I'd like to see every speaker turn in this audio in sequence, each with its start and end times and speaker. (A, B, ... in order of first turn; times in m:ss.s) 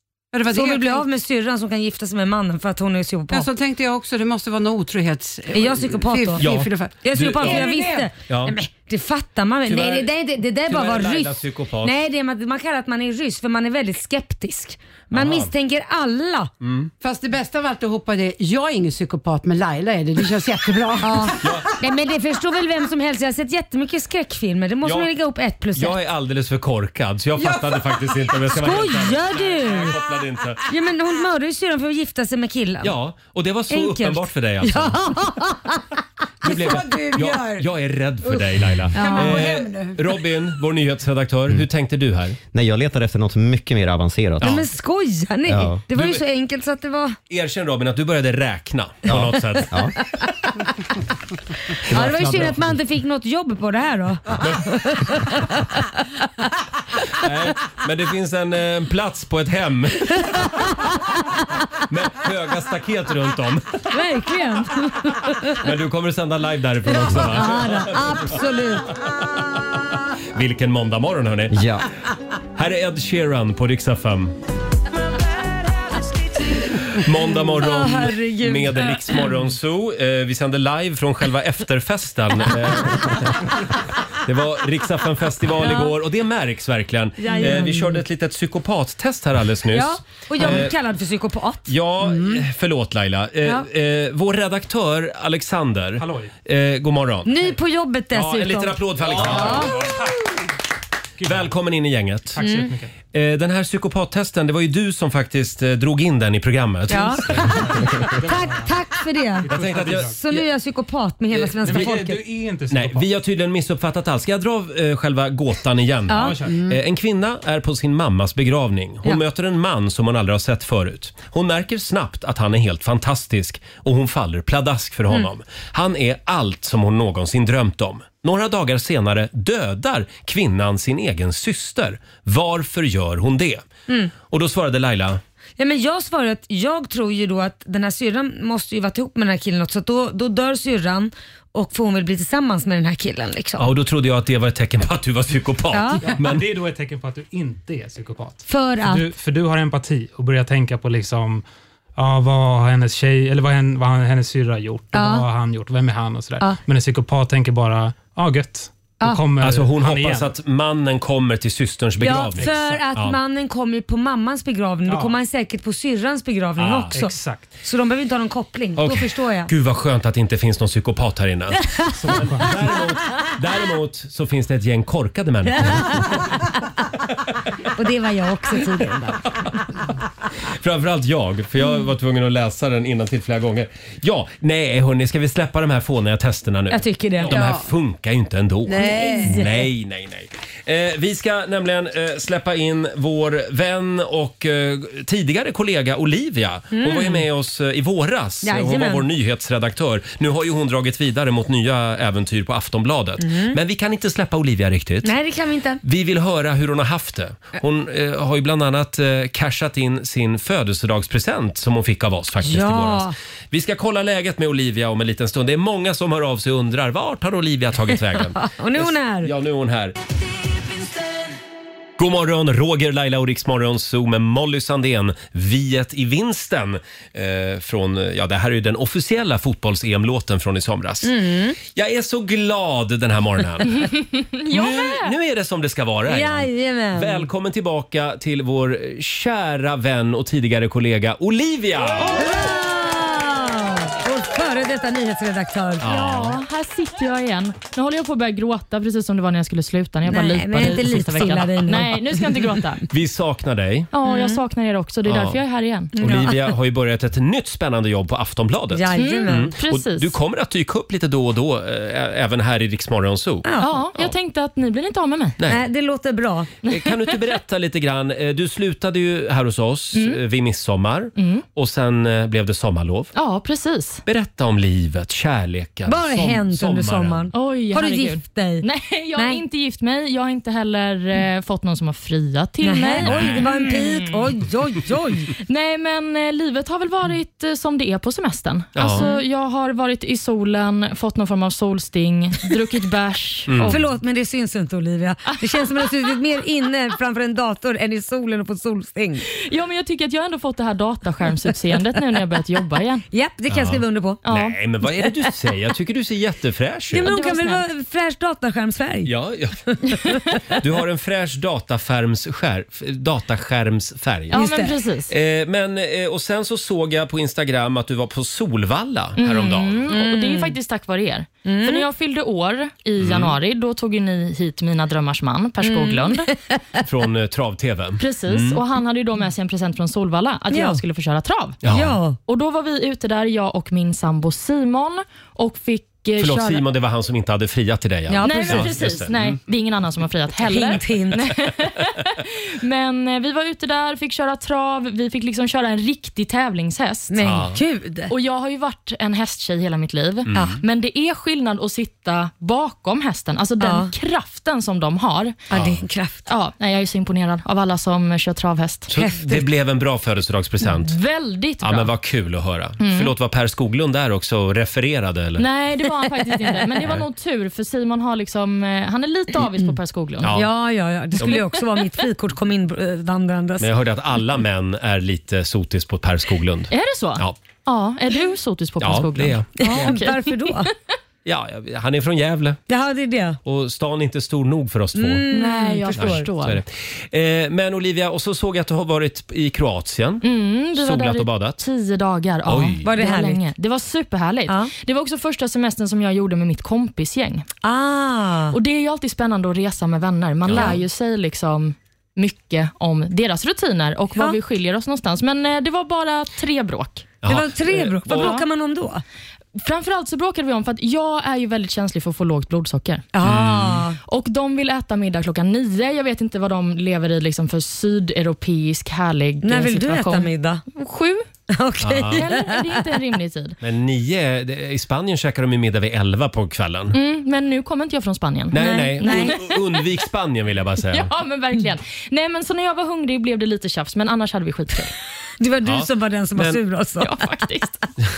0:00.3-0:01.0 A
0:00.5-0:03.5 B
0:03.3-0:08.1 A
0:05.5-0:06.5 B
0:06.4-0:07.7 C
0:07.0-0:16.5 B
0:08.3-0:08.5 C
0:09.6-0:10.1 C
0:10.7-0:12.0 C
0:15.1-0:15.5 C
0:16.6-0:16.9 C
0:17.0-0:21.6 A
0:21.0-0:26.0 B
0:21.4-0:21.7 C
0:24.8-0:25.1 C
0:25.8-0:30.6 C
0:27.4-0:28.2 A
0:28.5-0:30.0 B
0:30.7-0:32.9 B
0:32.8-0:35.0 C
0:33.7-0:35.9 B
0:36.4-0:37.7 A
0:36.4-0:42.4 C
0:38.2-0:40.0 A
0:38.9-0:39.5 B
0:42.5-0:44.6 D
0:44.4-0:44.6 C
0:44.4-0:47.2 B
0:45.5-0:45.8 D
0:45.9-0:46.2 C
0:47.3-0:49.8 C
0:49.0-0:49.9 D
0:50.1-0:50.5 B
0:51.9-0:56.0 B
0:51.9-0:52.6 D
0:52.2-0:52.5 C
0:57.1-1:00.6 C
1:00.1-1:01.6 B
1:01.8-1:03.8 C
1:03.9-1:05.6 B
1:05.6-1:08.4 C
1:07.0-1:08.9 B
1:10.3-1:11.6 C
1:11.5-1:11.8 D
1:12.6-1:14.3 C
1:16.7-1:23.6 C
1:17.6-1:19.0 B
1:24.2-1:30.7 C
1:25.6-1:25.9 B
1:27.2-1:28.0 B
1:29.7-1:32.4 B
1:31.7-1:37.4 C
1:36.0-1:36.3 E
1:37.2-1:39.8 B
1:38.1-1:39.8 C
1:39.2-1:40.1 E
1:41.2-1:41.5 E
1:41.2-1:42.4 C
1:42.3-1:42.9 E
1:42.4-1:42.7 B
1:43.1-1:48.1 C
1:46.9-1:52.2 B
1:47.4-1:48.8 E
1:49.4-1:50.2 E
1:49.5-1:50.4 C
1:51.4-1:53.1 E
1:51.6-1:52.0 C
1:52.7-2:13.6 C
1:56.1-1:56.4 B
1:56.1-1:56.6 E
2:14.3-2:15.2 C
2:15.6-2:23.7 B
2:23.6-2:26.5 C
2:25.7-2:26.0 B
2:26.0-2:31.4 E
2:28.4-2:29.1 B
2:32.0-2:40.3 E
2:34.9-2:35.2 B
2:39.4-2:43.2 C
2:42.0-2:49.5 B
2:42.4-2:42.8 E
2:44.8-2:45.2 E
2:46.6-2:47.0 C
2:46.9-2:47.4 E
2:48.8-2:56.2 C
2:51.8-2:52.5 B
2:52.0-2:52.6 E
2:55.5-2:56.5 B
2:57.7-2:59.2 B
3:00.5-3:25.1 C
3:06.7-3:07.3 B
3:07.3-3:07.7 A
3:08.6-3:09.5 A
3:08.8-3:09.5 B
3:16.7-3:17.2 B
3:18.4-3:19.0 B
3:23.2-3:23.6 B
3:25.0-3:25.8 B
3:25.8-3:40.0 C
3:32.4-3:33.1 B
3:38.1-3:39.3 B
3:42.0-3:51.1 C
3:51.0-3:51.6 B
3:51.7-3:53.8 C
3:53.7-3:55.1 F
3:54.5-4:02.3 C
3:56.1-3:57.3 B
4:02.0-4:02.3 F
4:02.1-4:05.9 B
4:05.8-4:06.4 C
4:05.8-4:12.9 F
4:10.0-4:12.6 B
4:12.9-4:13.9 C
4:13.9-4:15.9 F
4:14.0-4:14.4 B
4:15.0-4:15.4 C
4:15.9-4:16.5 B
4:16.0-4:24.1 C
4:18.7-4:19.5 B
4:18.9-4:20.1 F
4:23.4-4:23.8 B
4:23.6-4:25.4 F
4:25.5-4:26.5 B
4:26.6-4:27.2 F
4:26.7-4:33.1 C
4:29.9-4:30.2 F
4:31.2-4:31.4 F
4:33.1-4:34.0 F
4:34.0-4:37.3 C
4:35.9-4:39.4 B
4:37.3-4:44.3 F
4:42.6-4:45.3 B
4:43.0-4:43.5 C
4:45.4-4:53.8 F
4:48.8-4:49.0 C
4:48.9-4:49.2 B
4:53.5-4:53.8 C
4:53.6-4:59.3 B
4:55.4-4:55.9 F
4:59.3-5:03.0 F
5:03.1-5:04.2 B
5:03.5-5:07.1 C
5:04.2-5:04.6 F
5:06.9-5:09.1 B
5:07.0-5:07.6 F
5:09.0-5:09.7 C
5:09.7-5:10.6 B
5:10.5-5:14.4 C
5:14.3-5:15.1 F
5:14.3-5:14.8 B
5:15.1-5:20.1 C
5:19.2-5:26.3 F
5:19.9-5:20.5 B
5:21.4-5:21.9 B
5:23.0-5:23.3 C
5:25.6-5:26.8 B
5:26.8-5:28.6 C
5:28.0-5:31.6 F
5:30.5-5:30.8 B
5:31.6-5:32.0 C
5:31.7-5:32.2 B
5:32.2-5:36.6 F
5:36.2-5:39.4 C
5:38.1-5:38.8 B
5:38.2-5:47.2 F
5:40.4-5:41.3 B
5:47.1-5:48.1 B
5:47.2-5:47.6 C
5:48.1-5:55.4 F
5:50.3-5:50.6 B
5:53.6-5:53.9 B
5:55.5-5:56.2 B
5:55.5-5:55.8 C
5:56.3-5:58.9 F
5:58.9-6:00.9 C
5:58.9-5:59.4 B
6:00.6-6:01.9 F
6:01.6-6:05.4 C
6:02.8-6:03.1 F
6:05.4-6:10.3 F
6:06.0-6:06.7 B
6:09.4-6:09.7 B
6:10.2-6:10.5 C
6:10.3-6:13.7 B
6:11.2-6:11.6 F
6:13.6-6:17.4 C
6:16.7-6:20.7 F
6:18.8-6:20.0 C
6:19.6-6:20.7 B
6:21.2-6:22.6 C
6:22.7-6:23.4 B
6:23.4-6:25.2 C
6:25.0-6:26.3 B
6:25.3-6:26.6 F
6:26.0-6:30.2 C
6:30.2-6:37.5 F
6:30.7-6:31.6 C
6:32.4-6:32.8 C
6:32.8-6:33.4 B
6:34.5-6:34.7 B
6:37.6-6:38.6 B
6:38.5-6:47.1 F
6:40.5-6:40.8 C
6:40.5-6:40.8 B
6:47.2-6:48.3 C
6:47.3-6:49.0 B
6:48.1-6:48.4 F
6:49.6-6:53.1 F
6:53.1-6:54.0 B
6:53.2-6:53.8 C
6:54.0-7:01.2 F
6:59.4-7:00.6 B
7:01.5-7:02.9 B
7:01.8-7:02.2 C
7:02.2-7:03.6 F
7:03.6-7:07.0 C
7:06.9-7:09.8 F
7:08.5-7:11.1 C
7:08.6-7:09.4 B
7:10.9-7:14.9 F
7:15.4-7:17.2 B
7:15.6-7:16.6 C
7:17.0-7:17.8 F